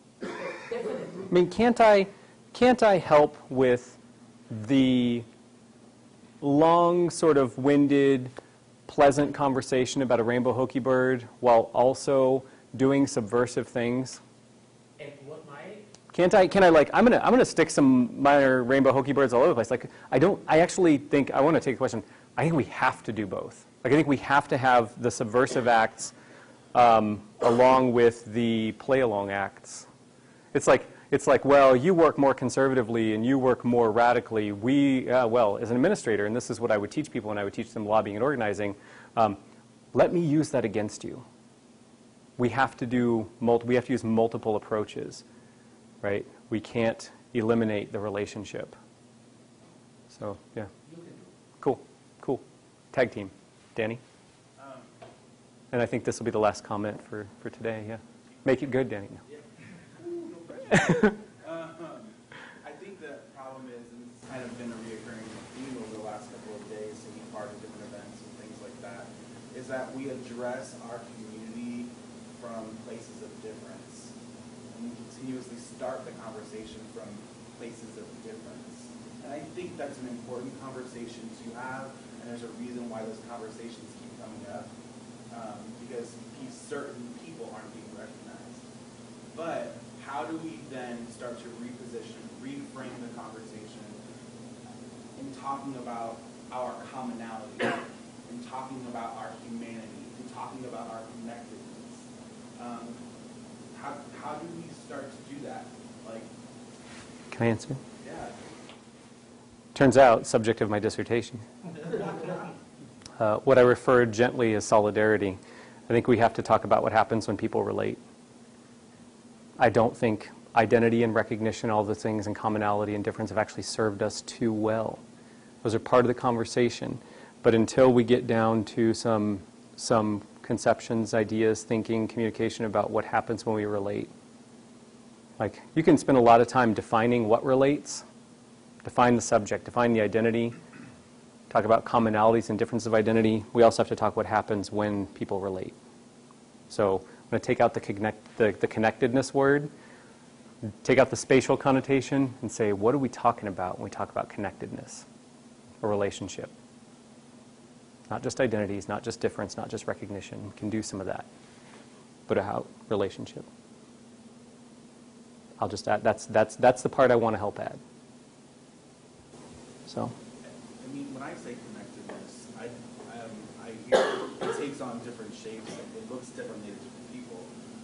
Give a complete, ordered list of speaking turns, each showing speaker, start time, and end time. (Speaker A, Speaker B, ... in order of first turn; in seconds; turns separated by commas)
Speaker A: 0.4-1.3, Speaker B: 1.3-4.0, Speaker B: 4.5-5.2, Speaker B: 6.4-8.3, Speaker B: 8.9-14.2, Speaker A: 15.0-15.9, Speaker B: 16.1-26.1, Speaker B: 26.7-29.9, Speaker B: 30.5-39.4, Speaker B: 39.9-41.2, Speaker B: 42.4-45.2, Speaker B: 46.0-48.7, Speaker B: 50.1-50.7, Speaker A: 50.8-51.3, Speaker B: 51.6-54.0, Speaker C: 54.6-54.9, Speaker B: 55.7-59.2, Speaker C: 59.2-74.1, Speaker C: 74.7-84.7, Speaker C: 85.3-88.6, Speaker C: 89.3-94.0, Speaker C: 95.2-103.0, Speaker C: 103.7-106.3, Speaker B: 107.3-107.8, Speaker C: 108.0-108.3, Speaker B: 109.7-111.5, Speaker C: 111.9-112.4, Speaker B: 113.2-118.0, Speaker B: 119.6-125.0, Speaker B: 125.6-134.1, Speaker B: 135.4-138.0, Speaker B: 138.8-140.6, Speaker B: 141.5-145.8, Speaker B: 146.7-149.7, Speaker B: 150.8-155.1, Speaker B: 155.8-156.5, Speaker B: 158.1-161.3, Speaker B: 162.3-163.5, Speaker B: 165.6-167.8, Speaker B: 169.9-170.1, Speaker C: 170.8-177.5